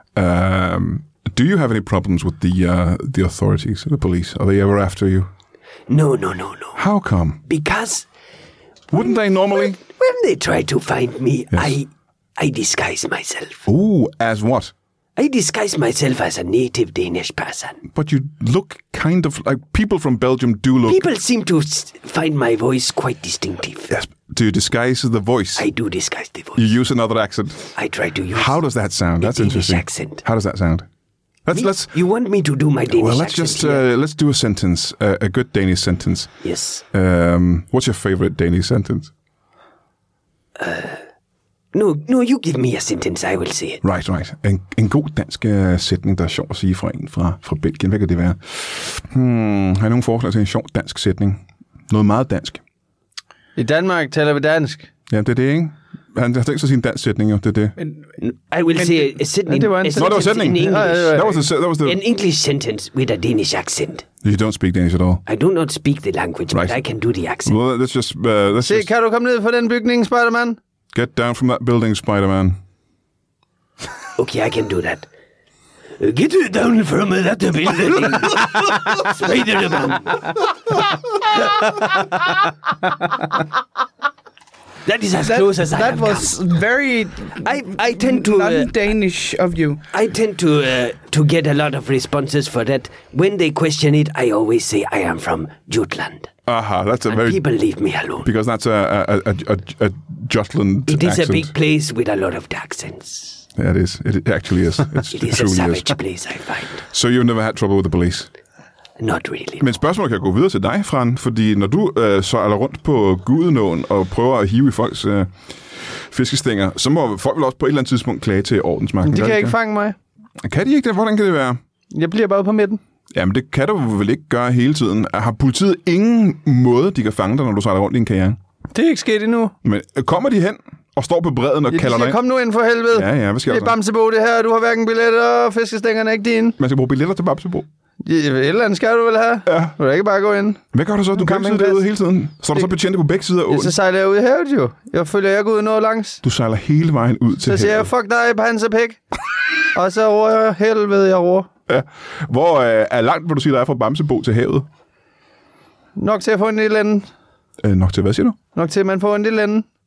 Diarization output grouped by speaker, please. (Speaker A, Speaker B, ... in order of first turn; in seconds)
Speaker A: 0.1-5.3, 6.8-7.4, 8.9-9.8, 11.5-11.8, 13.7-14.7, 17.9-21.1, 23.9-25.6, 26.5-27.7, 28.3-30.9, 31.5-31.9, 32.9-36.3, 36.9-39.1, 43.8-52.6, 55.1-57.7, 59.9-62.0, 64.2-65.2, 66.5-66.8, 67.4-68.9, 70.9-72.6, 96.5-97.4, 98.2-101.5, 103.5-106.0, 106.9-108.3, 109.6-115.3, 116.0-119.5, 120.4-121.6, 123.1-128.4, 129.6-132.2, 132.9-133.7, 136.6-137.7, 139.4-139.7, 140.7-143.7, 146.2-147.9, 151.7-154.7, 157.6-158.4
Speaker B: 5.9-6.8, 7.5-8.1, 9.6-13.6, 15.2-17.8, 20.8-23.9, 25.6-26.7, 27.7-28.6, 29.2-30.2, 31.5-33.9, 36.4-36.8, 40.6-41.0, 41.7-43.8, 58.2-61.2, 61.8-64.0, 65.2-67.5, 74.2-75.1, 76.0-80.4, 84.8-86.4, 87.3-88.7, 89.9-96.3, 97.1-98.3, 100.8-103.4, 105.0-106.8, 109.0-109.7
Speaker C: 53.5-54.9, 59.5-61.4, 68.6-70.6, 119.0-120.0, 121.9-122.8, 128.7-129.5, 131.7-136.6, 138.0-140.6, 141.1-141.9, 143.5-146.2, 147.4-149.0, 149.7-151.5, 155.9-157.1, 158.5-159.7
Speaker D: 57.8-58.1, 58.7-59.2, 85.2-89.8